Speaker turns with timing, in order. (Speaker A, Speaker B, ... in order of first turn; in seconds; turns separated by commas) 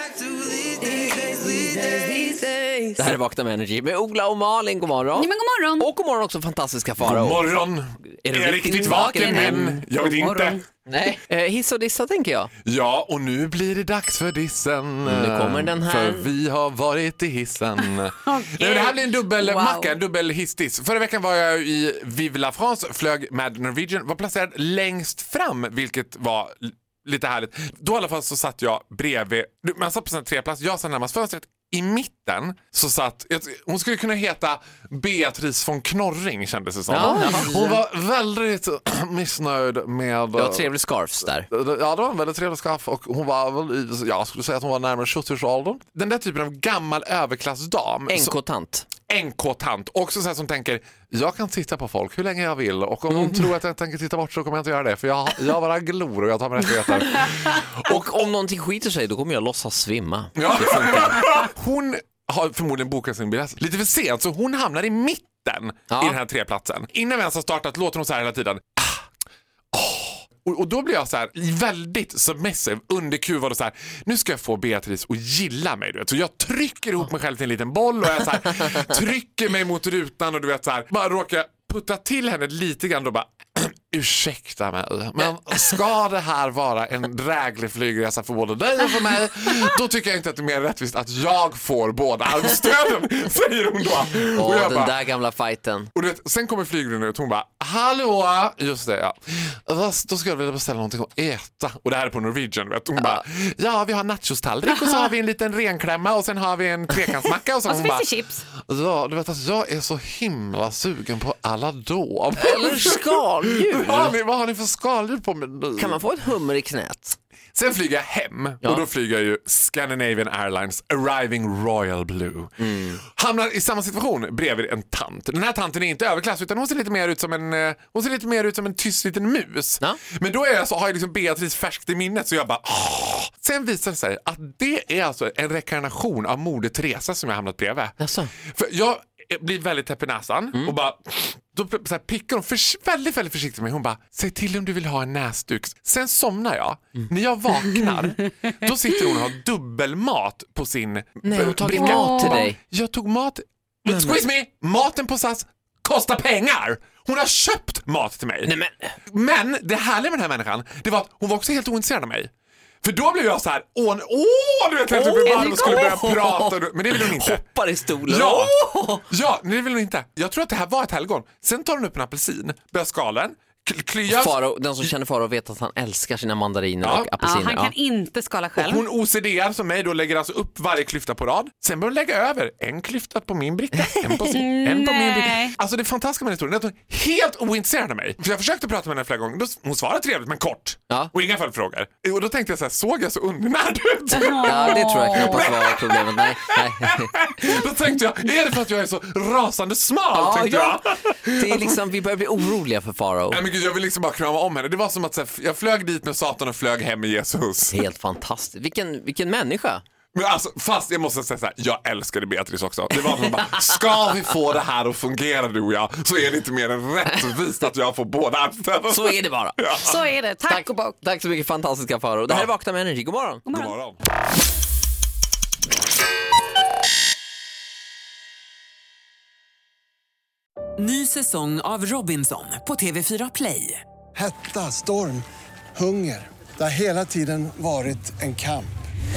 Speaker A: 3.0-7.6, Speaker B: 5.2-5.9, Speaker C: 7.0-10.6, Speaker A: 8.2-9.8, Speaker B: 8.8-10.6, Speaker A: 10.9-12.5, Speaker C: 12.7-40.8, Speaker A: 15.1-16.3, Speaker B: 18.2-20.0, Speaker A: 36.9-37.8, Speaker A: 40.4-41.5, Speaker C: 41.5-48.4, Speaker A: 48.1-48.9, Speaker C: 49.1-58.0, Speaker A: 53.1-53.5, Speaker A: 57.8-61.3, Speaker C: 60.4-69.0, Speaker A: 65.9-66.2, Speaker C: 69.7-95.0, Speaker A: 94.3-95.9, Speaker C: 95.9-116.0, Speaker B: 107.7-108.5, Speaker A: 112.4-114.2, Speaker A: 115.8-117.2, Speaker C: 117.5-138.0, Speaker A: 122.6-123.0, Speaker A: 138.0-138.3, Speaker C: 138.5-158.5, Speaker A: 151.2-152.6, Speaker B: 151.7-152.5, Speaker A: 153.9-154.3, Speaker A: 158.4-158.9, Speaker C: 159.1-162.3, Speaker C: 162.8-167.4, Speaker A: 164.9-169.1, Speaker C: 168.1-168.5, Speaker C: 169.1-174.4, Speaker A: 174.1-177.7, Speaker C: 176.8-177.1, Speaker B: 177.2-178.9, Speaker C: 178.6-201.8, Speaker A: 183.8-184.2, Speaker B: 184.3-185.5, Speaker B: 194.1-195.6, Speaker A: 194.4-197.2, Speaker A: 200.1-203.4, Speaker C: 203.3-207.8, Speaker A: 207.7-209.8, Speaker C: 210.1-220.0, Speaker A: 213.1-213.6, Speaker A: 218.9-219.6, Speaker B: 219.8-221.0, Speaker A: 220.5-223.4, Speaker B: 223.5-223.8, Speaker C: 223.5-224.0, Speaker D: 230.8-233.8, Speaker E: 234.2-235.2, Speaker E: 235.8-238.7